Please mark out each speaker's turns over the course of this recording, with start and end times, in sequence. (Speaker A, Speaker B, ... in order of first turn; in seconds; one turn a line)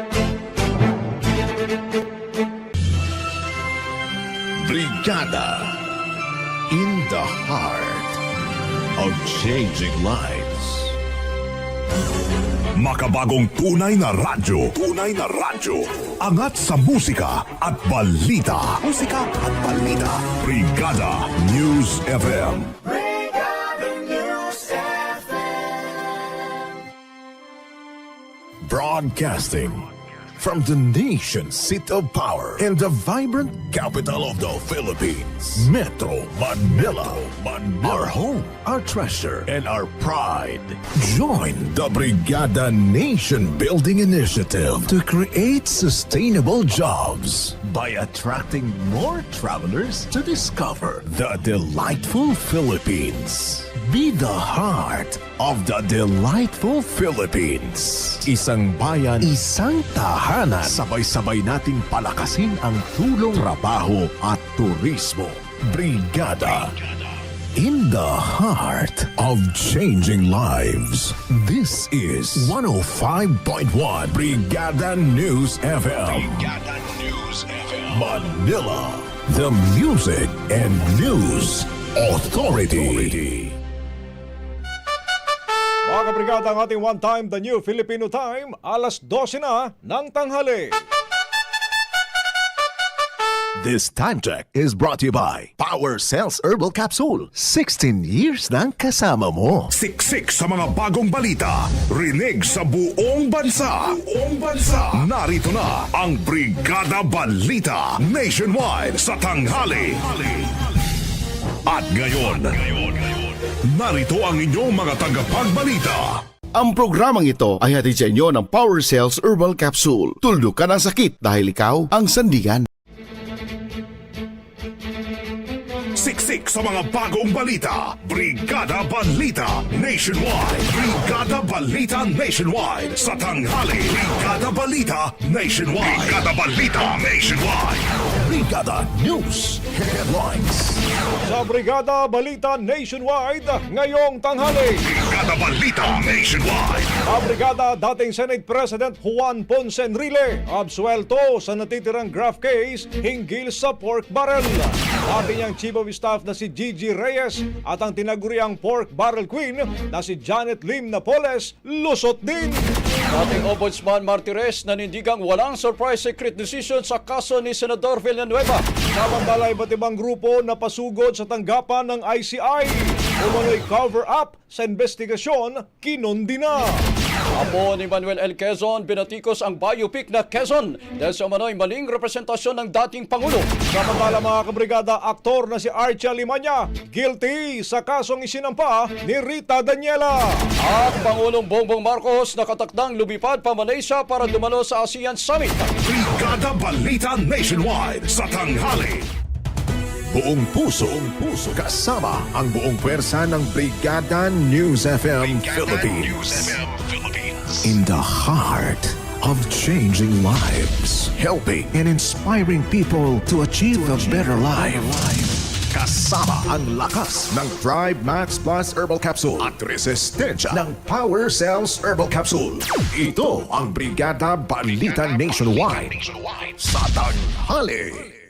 Speaker A: 4.6-5.8
Speaker A: 6.7-8.2
Speaker A: 9.0-10.9
Speaker B: 12.8-22.8
Speaker A: 28.7-29.8
Speaker A: 30.4-66.8
Speaker A: 67.6-83.5
Speaker C: 85.8-90.7
Speaker A: 93.6-99.7
Speaker B: 99.7-110.7
Speaker B: 111.7-116.2
Speaker D: 116.6-122.7
Speaker B: 126.0-138.0
Speaker A: 138.2-140.8
Speaker C: 141.2-144.8
Speaker B: 144.8-146.9
Speaker C: 147.0-162.6
Speaker E: 163.1-168.7
Speaker C: 168.9-176.8
Speaker E: 177.3-183.5
Speaker C: 183.7-190.4
Speaker E: 190.6-195.7
Speaker B: 195.8-199.1
Speaker A: 200.1-206.9
Speaker A: 207.5-228.1